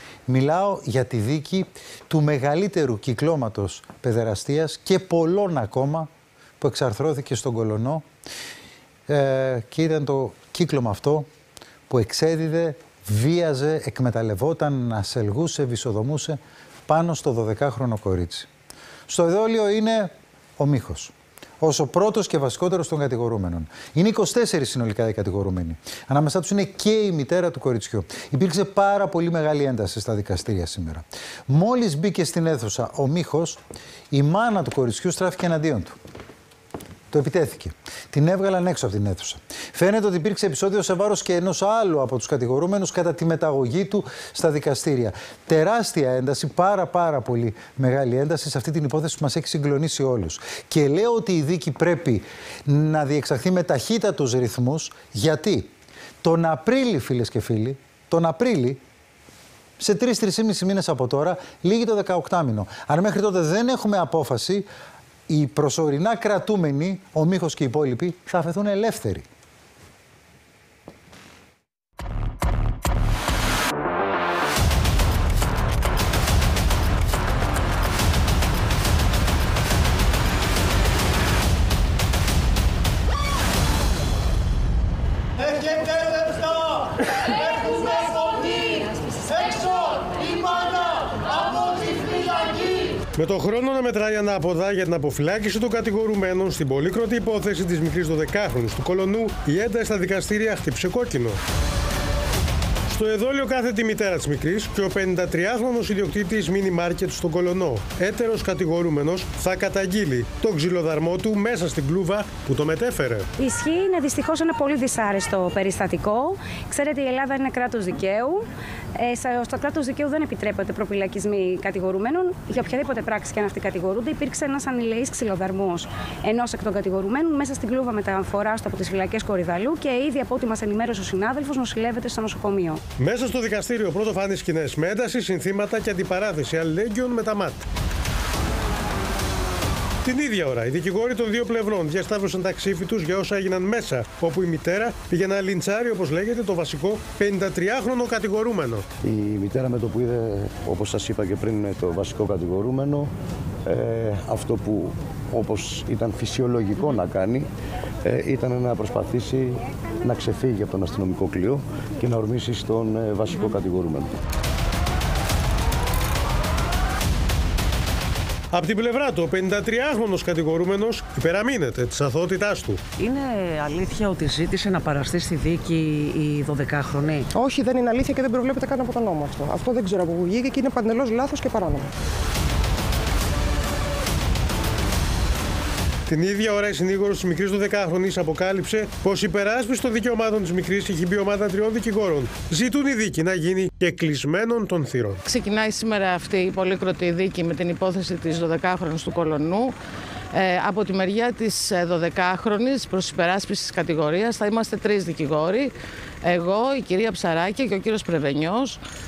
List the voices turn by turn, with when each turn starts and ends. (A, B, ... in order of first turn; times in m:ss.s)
0:00.3-0:06.1 A
0:06.6-0:08.0 A
0:09.1-0:11.3 A
0:11.9-0:18.5 A
0:19.1-0:33.6 A
0:34.1-0:35.9 A
0:37.1-0:55.7 A
0:56.2-0:58.8 A
0:59.8-1:04.6 A
1:05.3-1:09.2 A
1:33.2-1:41.4 B
1:42.9-1:53.2 B
1:53.4-2:12.8 C
2:13.0-2:17.6 B
2:20.0-2:28.8 B
2:29.0-2:33.1 D
2:33.7-2:37.4 D
2:38.1-2:44.1 D
2:48.5-2:52.8 B
2:53.0-2:57.2 E
2:57.3-3:01.9 F
3:06.1-3:15.2 B
3:15.2-3:19.7 G
3:20.3-3:28.8 G